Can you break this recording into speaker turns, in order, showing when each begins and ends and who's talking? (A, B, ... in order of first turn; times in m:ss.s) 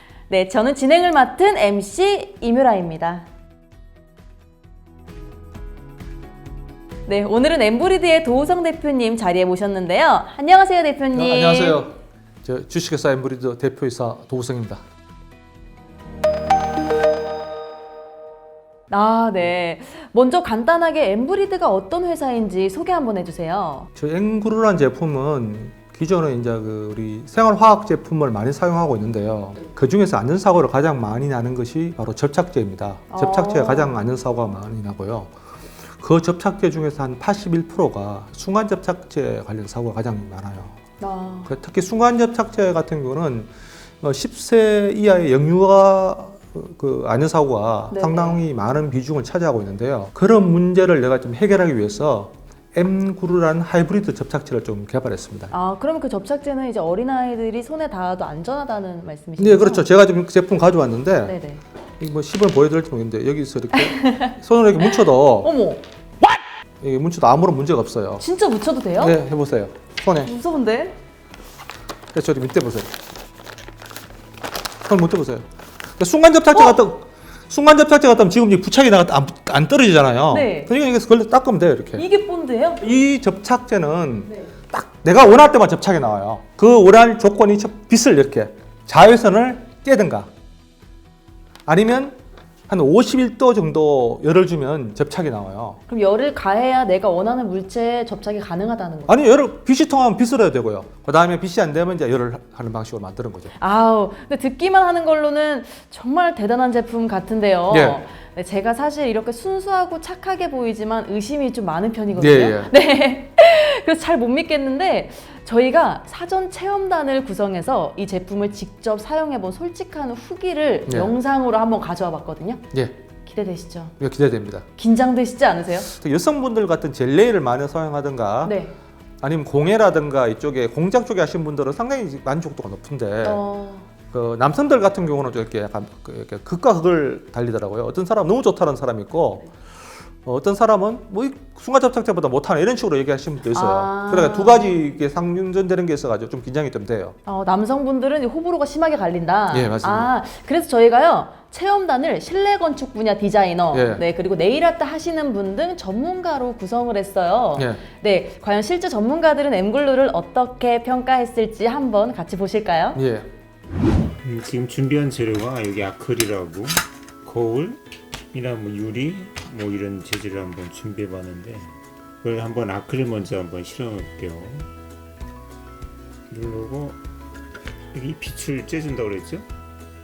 0:00.3-0:03.3 A
0:07.1-0:11.8 A
0:11.1-0:14.8 B
0:18.9-0:23.9 A
0:24.0-0:35.3 B
0:33.1-0:34.0 A
0:35.9-0:40.8 B
0:41.0-0:41.5 A
0:41.5-0:55.5 B
0:47.9-0:48.4 A
0:55.5-0:59.9 A
0:59.4-1:01.4 B
1:01.2-1:01.6 A
1:02.0-1:05.5 B
1:03.8-1:04.3 A
1:05.4-1:05.8 A
1:06.8-1:08.2 B
1:08.2-1:09.2 A
1:09.0-1:10.3 B
1:10.2-1:11.0 A
1:12.1-1:12.9 B
1:14.8-1:22.0 B
1:20.3-1:20.7 A
1:22.0-1:22.8 A
1:22.8-1:30.3 B
1:31.7-1:35.8 B
1:35.9-1:39.2 A
1:39.1-1:43.5 B
1:43.6-2:02.6 A
1:47.7-1:48.0 B
1:52.1-1:52.7 B
2:00.9-2:01.1 B
2:02.7-2:03.0 B
2:03.2-2:03.9 A
2:04.0-2:04.6 B
2:04.8-2:05.9 A
2:05.9-2:08.6 B
2:08.4-2:08.7 A
2:09.2-2:13.4 B
2:13.2-2:13.9 A
2:14.1-2:19.5 B
2:20.2-2:27.2 B
2:23.5-2:24.7 A
2:27.3-2:43.0 A
2:29.5-2:30.1 B
2:33.7-2:34.0 B
2:37.6-2:37.8 B
2:43.0-2:43.3 B
2:44.2-2:54.7 C
2:56.3-2:57.0 C
2:57.9-2:59.5 C